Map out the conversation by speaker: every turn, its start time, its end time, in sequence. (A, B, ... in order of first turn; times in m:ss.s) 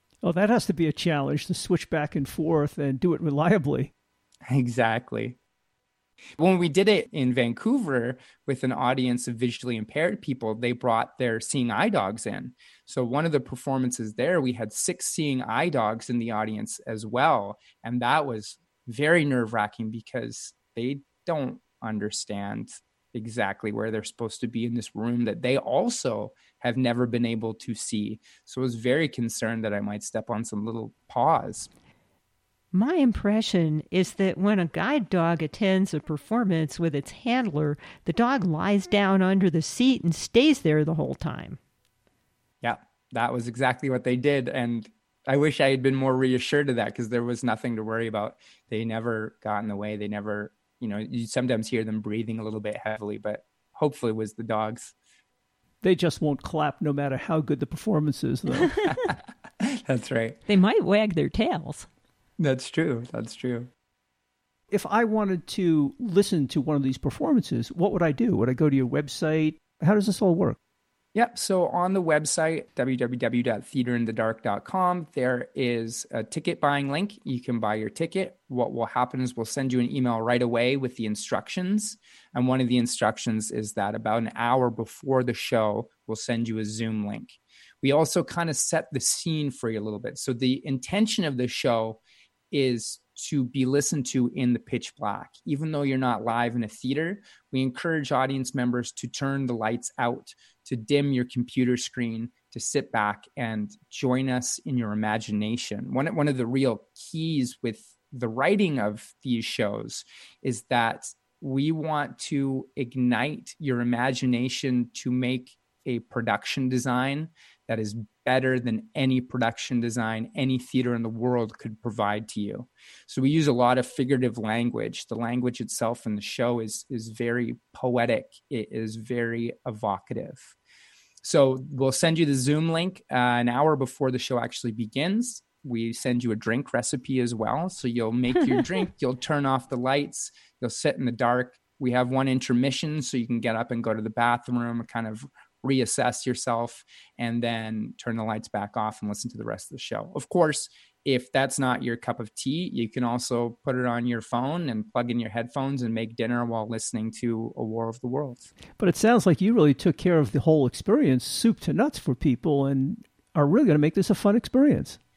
0:00.2-0:03.9 A
0:04.5-0:05.4 B
0:06.4-0:31.7 B
0:32.7-0:41.6 C
0:42.6-0:54.9 B
0:55.8-0:58.8 A
0:59.6-1:00.4 B
1:00.5-1:01.9 C
1:02.4-1:03.7 B
1:04.7-1:10.6 A
1:11.1-1:32.0 B
1:32.5-2:10.6 B
2:11.2-2:38.5 B
2:38.8-2:45.0 A